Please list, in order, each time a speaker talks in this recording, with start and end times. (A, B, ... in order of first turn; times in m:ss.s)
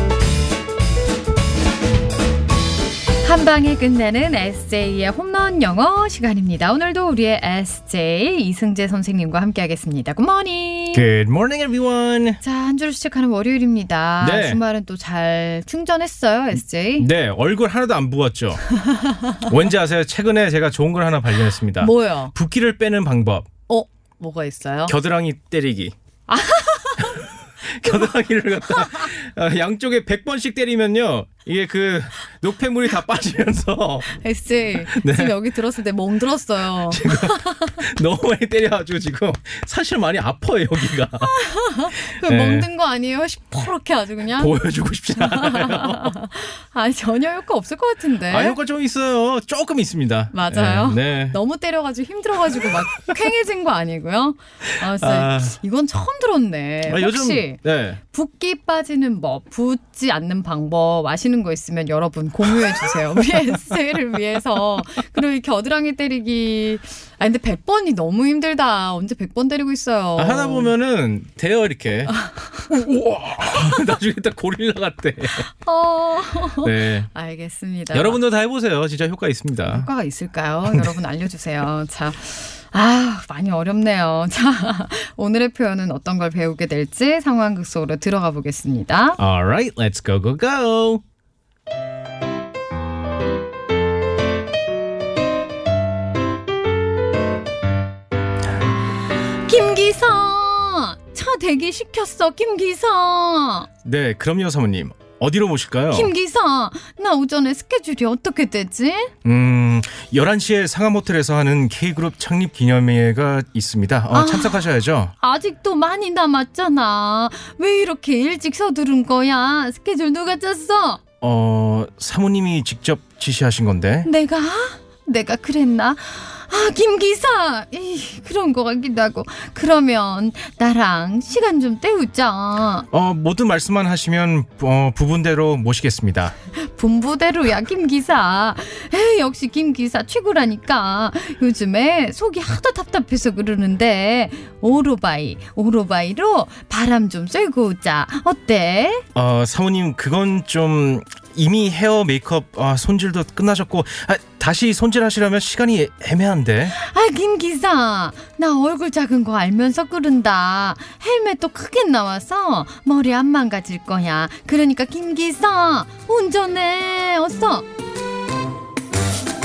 0:03.2-0:11.1 A
0:10.9-0:12.4 B
0:12.4-0:17.1 A
0:14.2-0:14.6 B
0:17.0-0:18.6 B
0:18.8-0:19.5 A
0:19.4-0:23.5 B
0:21.8-0:22.3 A
0:23.7-0:25.0 A
0:24.9-0:26.0 B
0:26.3-0:27.3 A
0:27.1-0:34.1 B
0:27.9-0:28.1 A
0:28.6-0:29.1 A
0:34.1-0:37.8 A
0:34.8-0:35.4 B
0:36.8-0:41.4 B
0:41.2-0:44.6 A
0:42.0-0:42.7 B
0:44.4-0:46.2 B
0:45.2-0:48.6 A
0:48.3-0:51.4 B
0:50.3-1:10.7 A
0:54.8-0:55.6 B
0:56.9-0:58.0 B
1:10.2-1:15.5 B
1:15.6-1:18.2 A
1:16.6-1:17.1 B
1:17.9-1:19.9 B
1:19.7-1:29.2 A
1:20.7-1:20.9 B
1:29.2-1:31.0 B
1:39.5-1:43.7 A
1:43.8-1:46.1 B
1:45.9-1:49.1 A
1:49.2-1:55.1 B
1:54.1-1:54.7 A
1:55.2-2:01.0 A
2:01.2-2:04.1 B
2:04.0-2:12.9 A
2:12.9-2:16.3 B
2:16.6-2:29.0 A
2:29.2-2:36.8 B
2:36.7-2:47.7 A